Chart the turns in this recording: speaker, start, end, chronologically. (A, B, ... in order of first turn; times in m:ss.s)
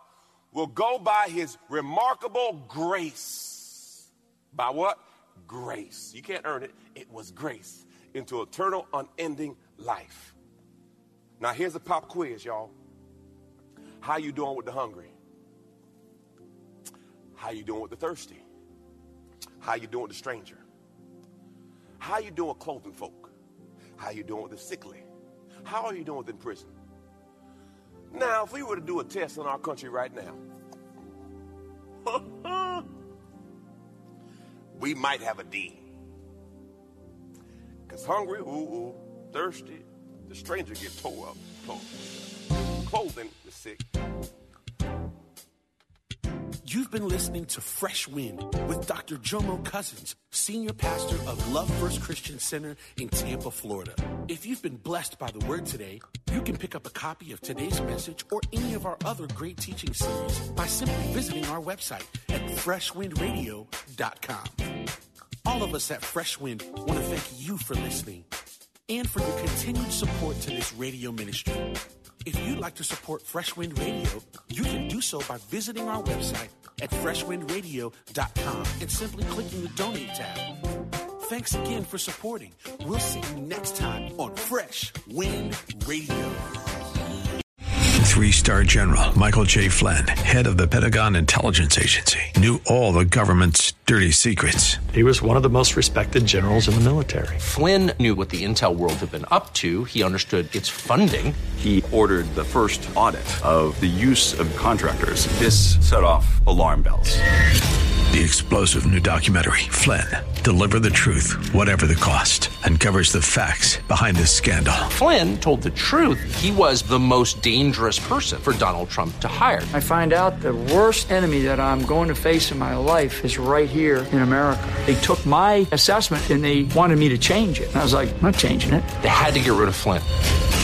0:00.5-0:10.4 A
0:11.4-0:12.7 A
0:14.0-0:15.1 A
0:17.4-0:18.4 A
0:19.6-0:20.6 A
0:22.0-0:23.3 A
0:24.0-0:25.1 A
0:25.6-0:26.7 A
0:28.1-0:30.4 A
0:32.1-0:32.9 A
0:34.7-0:35.9 A
0:37.9-0:42.2 A
0:42.8-0:43.8 A
0:46.6-1:04.7 B
1:05.4-1:08.3 B
1:08.9-1:20.6 B
1:21.2-1:26.6 B
1:28.0-1:34.9 C
1:34.9-1:37.4 D
1:37.4-1:41.4 E
1:41.6-1:47.2 F
1:48.1-1:54.9 C
1:54.9-1:59.7 E
1:59.7-2:08.9 G
2:09.0-2:10.1 E